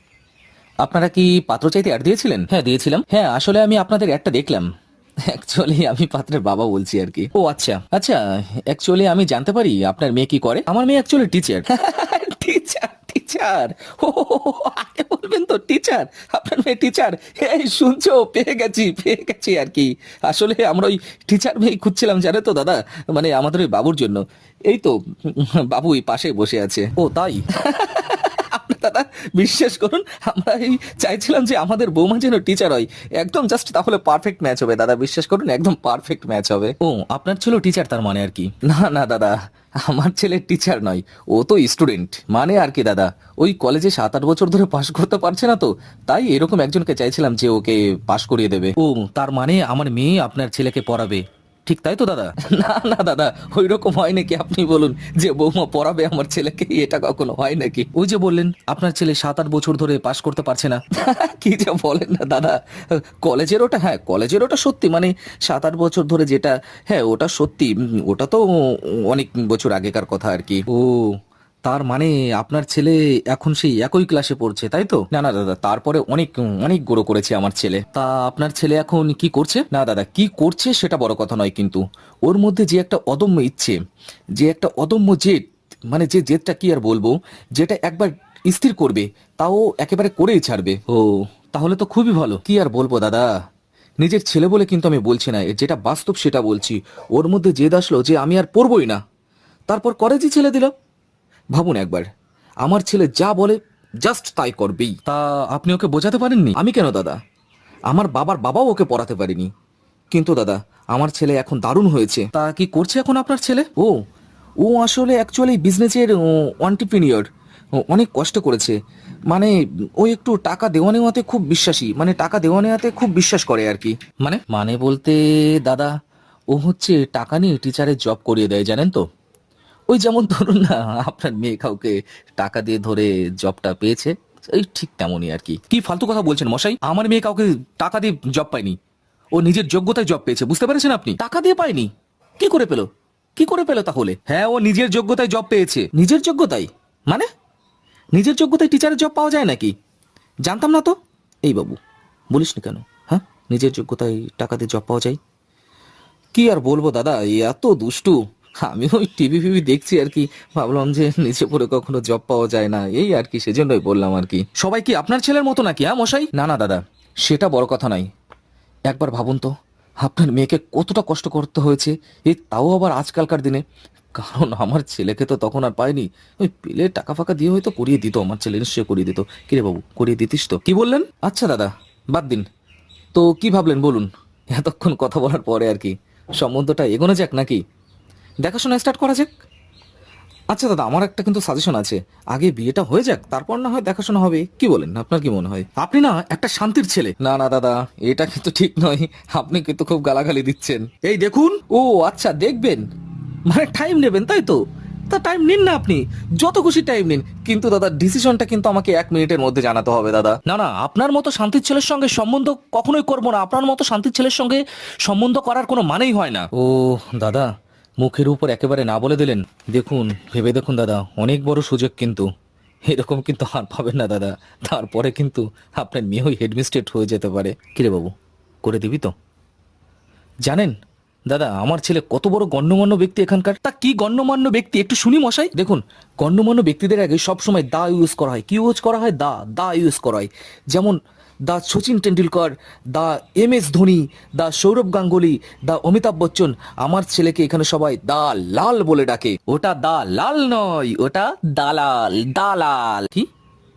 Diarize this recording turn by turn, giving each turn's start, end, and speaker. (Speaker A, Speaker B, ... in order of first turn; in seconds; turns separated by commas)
Speaker A: 0.8-4.7, Speaker A: 5.2-68.5, Speaker A: 69.0-83.8, Speaker A: 84.4-93.3, Speaker A: 94.0-99.0, Speaker A: 99.7-100.7, Speaker A: 101.5-102.1, Speaker A: 102.6-107.2, Speaker A: 107.9-109.5, Speaker A: 110.1-114.0, Speaker A: 114.6-117.3, Speaker A: 117.8-118.8, Speaker A: 119.3-125.9, Speaker A: 126.5-129.0, Speaker A: 129.9-138.8, Speaker A: 139.3-147.3, Speaker A: 148.1-149.7, Speaker A: 150.4-151.8, Speaker A: 152.3-155.2, Speaker A: 156.3-168.1, Speaker A: 168.9-182.4, Speaker A: 183.1-187.6, Speaker A: 188.4-189.3, Speaker A: 190.5-202.8, Speaker A: 203.5-222.3, Speaker A: 222.9-229.1, Speaker A: 230.4-230.8, Speaker A: 231.3-241.0, Speaker A: 241.5-253.3